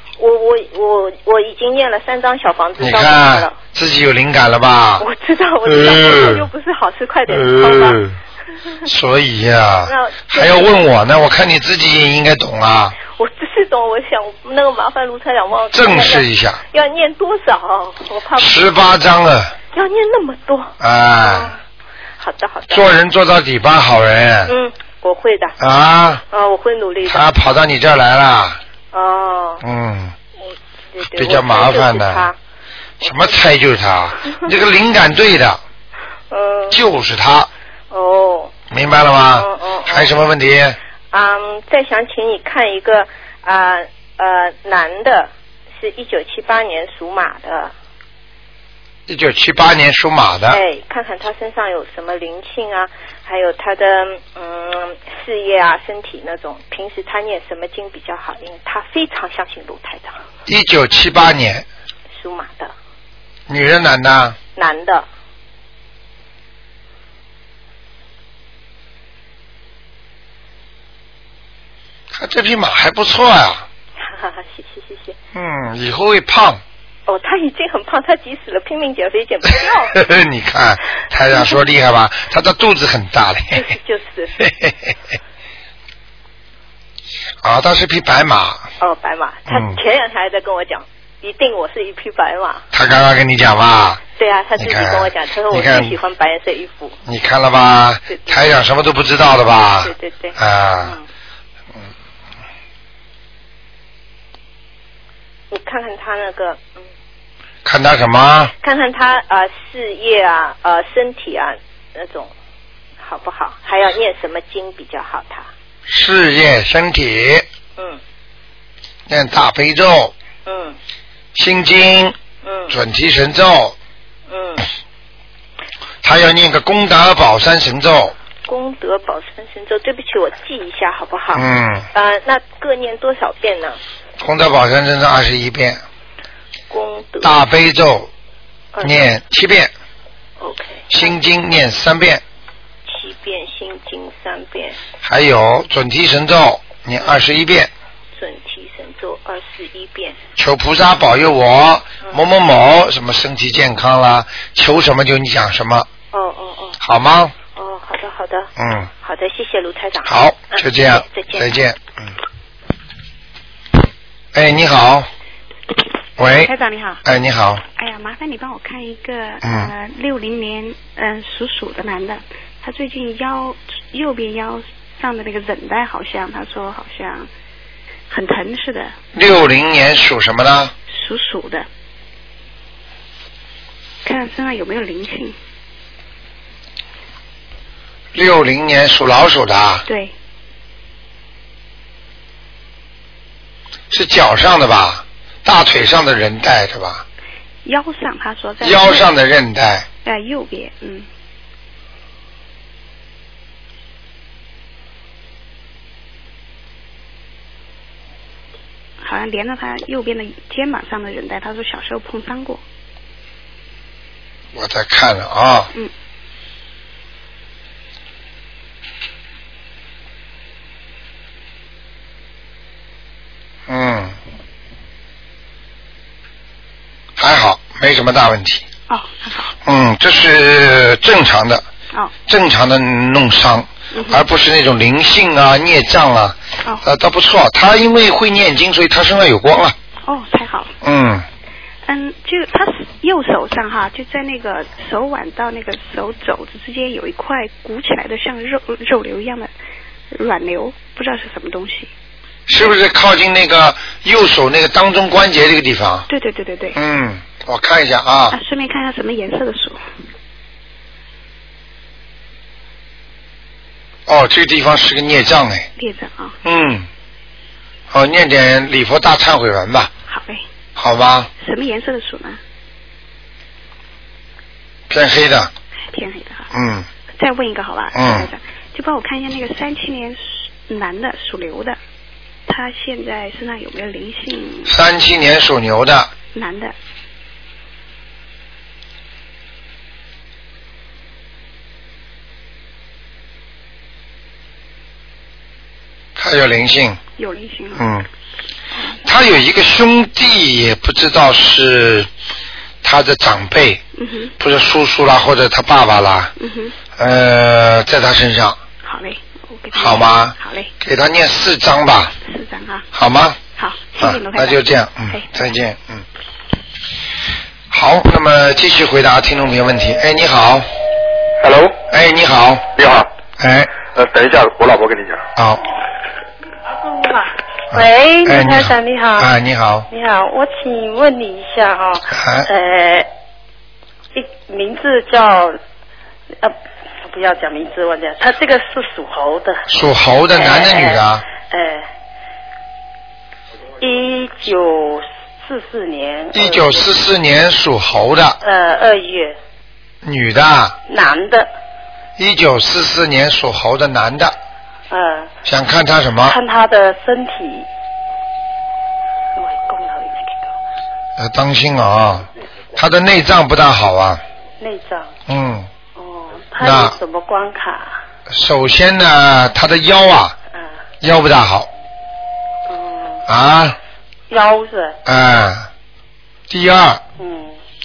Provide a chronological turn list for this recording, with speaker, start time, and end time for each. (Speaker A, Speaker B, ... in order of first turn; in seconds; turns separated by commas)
Speaker A: 0.2-3.6, Speaker B: 2.8-5.0, Speaker A: 5.0-8.0, Speaker B: 5.7-6.5, Speaker B: 7.3-8.2, Speaker B: 8.8-13.0, Speaker A: 9.8-10.9, Speaker A: 13.0-18.8, Speaker B: 15.7-16.6, Speaker B: 18.4-19.5, Speaker A: 19.7-21.6, Speaker B: 20.8-21.5, Speaker A: 22.2-22.9, Speaker B: 22.7-24.5, Speaker A: 24.5-25.6, Speaker B: 25.6-26.2, Speaker A: 26.3-27.4, Speaker B: 27.0-28.6, Speaker A: 28.9-29.6, Speaker B: 29.6-30.1, Speaker A: 30.9-32.4, Speaker B: 31.1-32.3, Speaker A: 33.0-33.5, Speaker B: 33.0-35.6, Speaker A: 36.3-36.8, Speaker B: 36.7-37.5, Speaker A: 37.9-38.5, Speaker B: 38.7-40.8, Speaker A: 39.3-40.2, Speaker A: 41.1-47.7, Speaker B: 49.1-50.6, Speaker A: 50.5-60.2, Speaker B: 60.5-61.6, Speaker A: 62.1-62.7, Speaker B: 63.5-64.4, Speaker A: 64.5-65.0, Speaker B: 72.1-73.6, Speaker A: 74.0-75.2, Speaker B: 75.3-76.6, Speaker A: 77.1-80.0, Speaker B: 79.9-83.7, Speaker A: 81.3-81.6, Speaker A: 83.5-84.3, Speaker B: 84.4-84.9, Speaker B: 87.4-88.7, Speaker A: 88.8-92.7, Speaker B: 89.5-89.8, Speaker B: 92.7-94.0, Speaker A: 94.1-97.0, Speaker B: 94.6-95.9, Speaker B: 97.0-101.0, Speaker A: 98.1-98.6, Speaker A: 99.8-101.0, Speaker A: 105.5-106.8, Speaker B: 107.6-108.5, Speaker A: 108.6-112.3, Speaker A: 113.0-115.5, Speaker B: 115.9-117.5, Speaker B: 119.1-120.1, Speaker A: 120.5-120.8, Speaker B: 121.3-122.2, Speaker A: 122.4-122.8, Speaker B: 122.7-123.8, Speaker A: 124.3-124.6, Speaker B: 126.0-128.1, Speaker A: 128.5-133.8, Speaker B: 131.3-131.9, Speaker B: 134.2-135.8, Speaker A: 136.7-137.4, Speaker B: 137.2-138.1, Speaker A: 138.7-139.1, Speaker B: 138.8-139.7, Speaker A: 140.4-141.2, Speaker B: 140.9-142.2, Speaker A: 142.8-144.8, Speaker B: 145.0-147.7, Speaker A: 148.1-150.2, Speaker B: 150.4-155.9, Speaker A: 156.1-156.8, Speaker B: 156.8-157.3, Speaker A: 157.5-158.5, Speaker B: 158.6-158.9, Speaker A: 159.0-161.6, Speaker B: 160.0-162.1, Speaker B: 164.3-165.1, Speaker B: 166.2-166.5, Speaker A: 166.6-167.0, Speaker B: 167.0-167.6, Speaker C: 167.8-177.3, Speaker B: 169.4-169.7, Speaker C: 178.1-178.9, Speaker B: 179.1-180.7, Speaker C: 180.9-181.7, Speaker C: 184.0-185.3, Speaker B: 188.1-189.8, Speaker C: 189.8-190.1, Speaker B: 193.9-197.0, Speaker C: 197.6-199.1, Speaker B: 198.6-199.8, Speaker C: 200.0-201.1, Speaker C: 209.0-212.6, Speaker B: 214.5-215.7, Speaker B: 223.7-224.2, Speaker B: 227.2-228.7, Speaker C: 228.9-229.5, Speaker B: 229.6-231.6, Speaker B: 232.3-239.7, Speaker C: 233.9-234.2, Speaker C: 240.0-240.7, Speaker B: 240.8-241.2, Speaker C: 241.8-249.5, Speaker C: 250.1-251.9, Speaker B: 252.5-256.1, Speaker C: 256.1-256.8, Speaker B: 256.7-258.4, Speaker C: 258.3-259.8, Speaker B: 264.1-265.7, Speaker C: 265.8-266.4, Speaker B: 266.4-266.9, Speaker B: 267.9-269.9, Speaker C: 270.1-270.4, Speaker B: 270.8-271.3, Speaker C: 271.4-272.4, Speaker B: 274.9-275.5, Speaker C: 275.9-276.5, Speaker B: 276.5-276.9, Speaker C: 277.1-281.8, Speaker B: 277.9-278.3, Speaker C: 282.4-284.8, Speaker B: 284.7-286.1, Speaker C: 286.3-286.7, Speaker B: 296.1-297.0, Speaker C: 297.2-297.8, Speaker B: 297.7-298.1, Speaker C: 298.7-299.0, Speaker B: 299.1-302.1, Speaker B: 302.8-303.8, Speaker C: 303.9-304.3, Speaker B: 304.4-306.3, Speaker C: 306.4-306.8, Speaker B: 307.0-308.6, Speaker C: 308.8-310.7, Speaker B: 309.7-312.1, Speaker C: 312.2-312.9, Speaker B: 312.9-313.4, Speaker C: 313.6-315.3, Speaker B: 314.0-316.0, Speaker B: 317.7-320.7, Speaker D: 321.4-321.8, Speaker B: 321.9-322.7, Speaker D: 322.8-323.1, Speaker B: 323.4-323.7, Speaker D: 323.9-325.2, Speaker B: 325.4-325.6, Speaker E: 326.7-329.3, Speaker B: 327.7-329.9, Speaker E: 329.9-333.1, Speaker B: 332.1-332.5, Speaker E: 334.1-335.6, Speaker E: 336.4-339.6, Speaker B: 339.7-341.2, Speaker E: 340.3-341.9, Speaker E: 343.8-346.9, Speaker B: 346.3-348.4, Speaker E: 348.4-349.4, Speaker B: 350.0-350.8, Speaker E: 350.9-351.5, Speaker B: 352.2-354.4, Speaker E: 354.9-355.3, Speaker B: 355.4-356.4, Speaker E: 356.2-357.7, Speaker E: 359.4-360.5, Speaker B: 361.2-364.2, Speaker E: 364.6-365.1, Speaker B: 365.3-365.7, Speaker E: 365.9-368.0, Speaker B: 366.6-366.9, Speaker B: 368.3-370.4, Speaker B: 371.0-371.7, Speaker E: 372.7-373.2, Speaker B: 373.3-373.8, Speaker E: 374.3-375.0, Speaker B: 375.1-375.7, Speaker B: 376.5-377.0, Speaker E: 377.2-377.6